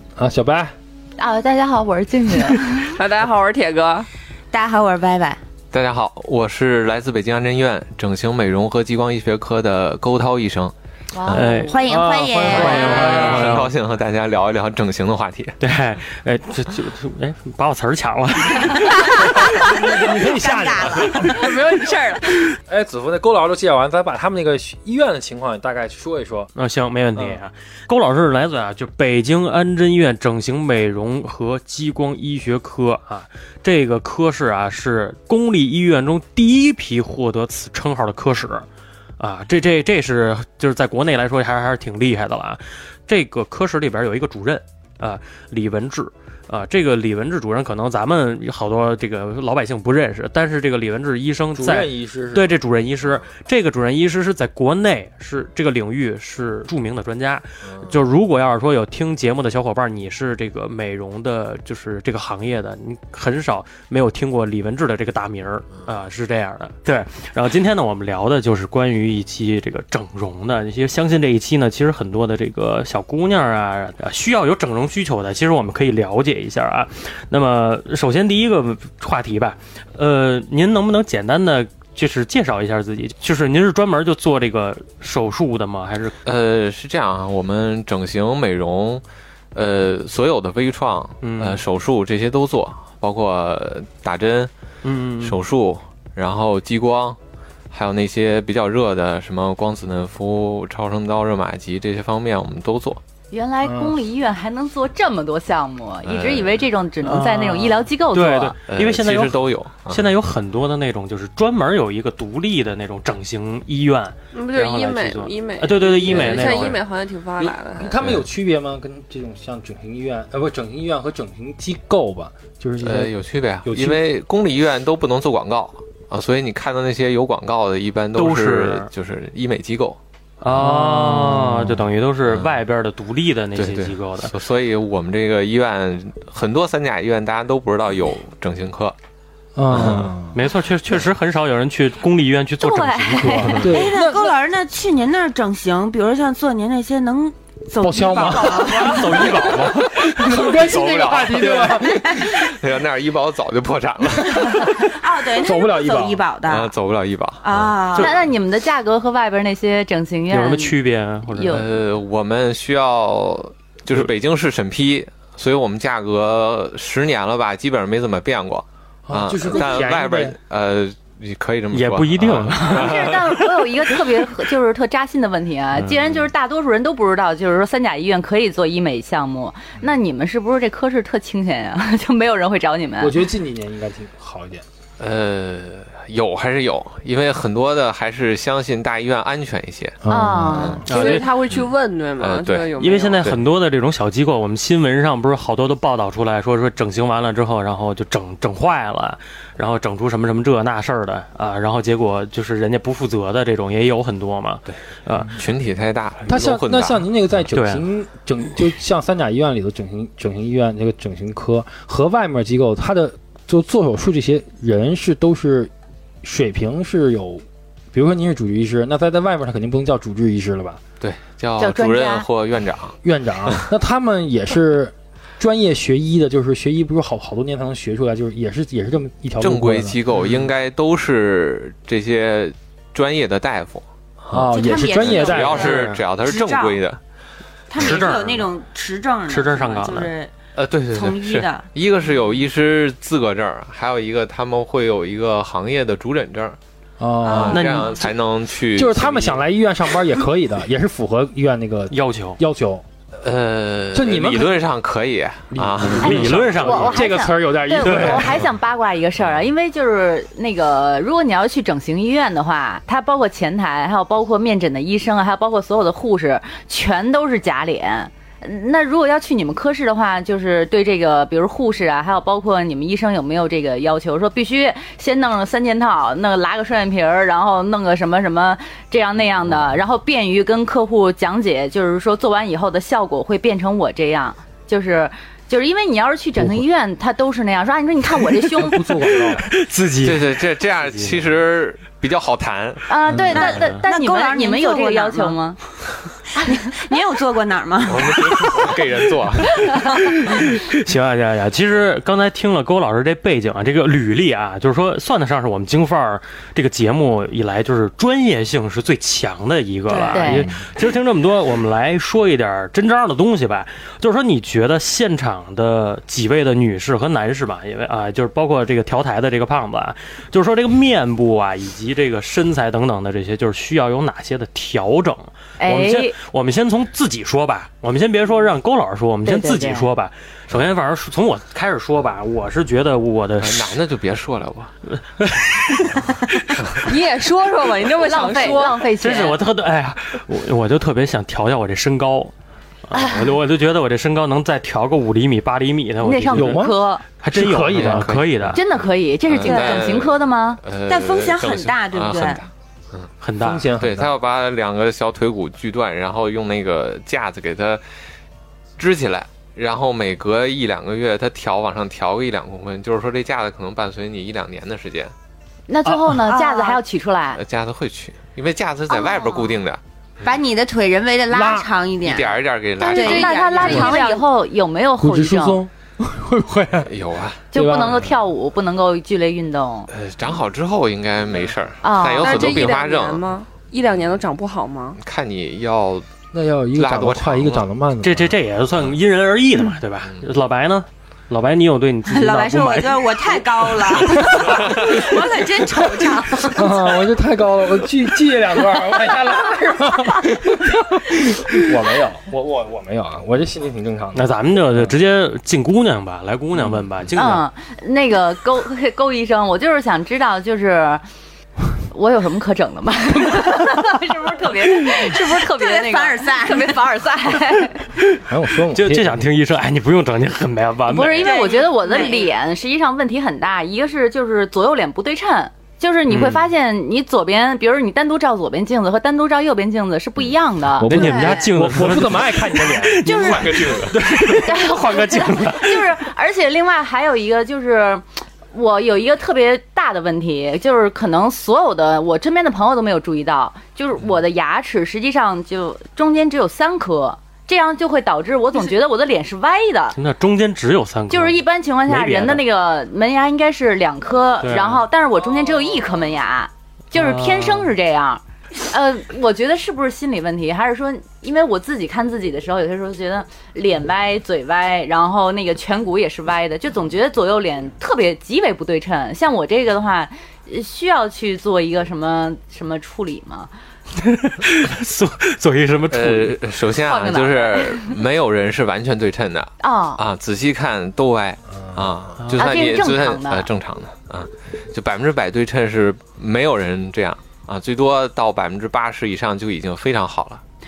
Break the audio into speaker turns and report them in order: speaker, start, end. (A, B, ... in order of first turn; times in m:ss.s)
0:00.2-0:00.7 A
0:01.2-0:03.0 B
0:02.9-0:04.1 C
0:04.5-0:05.4 D
0:05.7-0:11.6 E
0:11.1-0:11.9 B
0:11.3-0:11.8 F
0:11.6-0:13.1 D
0:11.9-0:13.7 A
0:12.4-0:13.7 F
0:12.6-0:15.6 E
0:15.6-0:19.5 F
0:18.7-0:21.6 D
0:19.4-0:21.9 A
0:21.8-0:22.1 C
0:22.7-0:26.5 A
0:26.6-0:38.7 F
0:39.2-1:26.2 F
0:51.5-0:52.5 A
1:26.2-1:29.0 E
1:29.5-1:34.5 E
1:31.2-1:31.6 F
1:34.8-1:35.4 F
1:35.2-1:37.2 E
1:37.7-1:43.0 E
1:43.3-1:48.6 B
1:43.6-1:44.0 A
1:46.0-1:46.6 E
1:47.0-1:56.8 F
1:48.7-1:50.1 E
1:54.3-1:58.0 C
1:56.1-1:56.7 E
1:57.4-2:04.0 A
2:02.8-2:10.0 E
2:08.2-2:08.9 F
2:10.4-2:14.3 F
2:10.5-2:11.8 A
2:12.3-2:12.6 E
2:13.6-2:19.0 E
2:19.6-2:20.4 A
2:19.7-2:20.1 E
2:20.3-2:23.7 F
2:22.6-2:23.7 B
2:23.2-2:24.3 A
2:23.6-2:29.5 D
2:27.8-2:32.4 A
2:28.4-2:30.1 F
2:30.2-2:34.8 E
2:34.5-2:36.7 D
2:35.4-2:36.2 A
2:36.5-2:37.8 E
2:37.4-2:38.1 D
2:37.9-2:41.6 B
2:40.3-2:41.6 F
2:41.5-2:53.4 E
2:49.1-2:50.4 A
2:51.7-2:53.4 F
2:52.6-3:03.2 B
3:03.0-3:04.6 A
3:05.0-3:12.7 E
3:10.0-3:10.9 A
3:10.1-3:10.8 B
3:10.9-3:11.3 F
3:10.9-3:13.3 C
3:12.8-3:25.4 F
3:24.7-3:27.0 E
3:26.3-3:35.7 A
3:27.5-3:27.8 F
3:36.2-3:40.8 A
3:41.0-3:43.0 E
3:41.6-3:42.3 B
3:43.0-3:50.0 A
3:49.4-3:57.0 E
3:54.3-3:56.0 A
3:54.5-3:56.8 D
3:57.7-4:00.3 D
3:57.8-3:58.5 F
3:59.3-4:00.1 F
4:00.6-4:06.6 E
4:00.9-4:01.7 D
4:07.0-4:07.7 A
4:07.3-4:07.9 D
4:07.3-4:09.4 E
4:07.4-4:08.1 F
4:08.7-4:12.8 A
4:11.9-4:12.4 F
4:13.2-4:16.6 E
4:13.9-4:14.7 A
4:15.5-4:18.5 A
4:15.8-4:17.1 F
4:16.0-4:49.1 B
4:17.8-4:18.4 F
4:48.5-4:49.5 A
4:49.5-4:50.4 F
4:50.0-4:52.9 E
4:50.9-4:51.2 F
4:52.9-4:55.6 B
4:53.3-4:55.4 D
4:53.4-4:53.7 F
4:56.4-4:58.7 D
4:57.9-4:59.7 E
5:00.3-5:33.8 F
5:09.9-5:10.4 D
5:10.1-5:10.5 B
5:25.6-5:26.2 B
5:29.2-5:29.9 B
5:33.4-5:34.7 E
5:35.2-5:36.4 F
5:36.8-5:38.8 C
5:38.0-5:39.4 B
5:39.0-5:42.3 F
5:42.9-5:46.7 F
5:42.9-5:43.3 B
5:46.0-5:47.0 B
5:46.3-5:46.8 A
5:47.2-5:48.6 F
5:47.3-5:48.2 A
5:47.7-5:53.1 E
5:48.5-5:50.6 B
5:49.4-5:50.0 D
5:50.9-5:52.4 D
5:53.2-5:53.7 F
5:53.4-5:54.1 A
5:53.8-5:57.8 E
5:58.8-6:05.1 E
6:05.7-6:07.4 B
6:06.2-6:06.8 D
6:07.4-6:10.3 E
6:08.9-6:09.5 D
6:10.2-6:14.2 D
6:11.3-6:11.7 A
6:12.0-6:13.8 E
6:12.8-6:15.6 B
6:15.0-6:16.9 A
6:16.9-6:17.4 E
6:17.5-6:18.1 A
6:17.5-6:19.9 B
6:19.9-6:23.3 E
6:21.8-6:22.6 B
6:22.2-6:25.0 C
6:25.0-6:26.1 E
6:26.3-6:28.4 A
6:26.8-6:27.7 E
6:28.0-6:33.4 F
6:32.1-6:37.0 D
6:34.6-6:35.0 E
6:36.4-6:44.9 A
6:44.2-6:47.5 F
6:47.2-6:51.0 B
6:51.9-6:57.9 B
6:55.1-6:56.9 D
6:58.2-6:59.2 A
6:58.7-7:01.4 F
7:00.9-7:11.4 B
7:01.2-7:02.3 D
7:06.1-7:06.5 F
7:10.8-7:13.8 A
7:10.8-7:15.9 F
7:11.0-7:11.4 D
7:13.0-7:30.0 B
7:13.1-7:14.0 E
7:30.0-7:32.4 F
7:31.1-7:53.5 B
7:34.4-7:34.9 F
7:37.0-7:37.7 F
7:54.0-7:56.4 F
7:55.9-8:10.4 E
7:56.8-7:58.0 B
7:59.6-8:00.0 B
8:01.6-8:01.9 A
8:02.2-8:02.8 F
8:02.4-8:03.5 B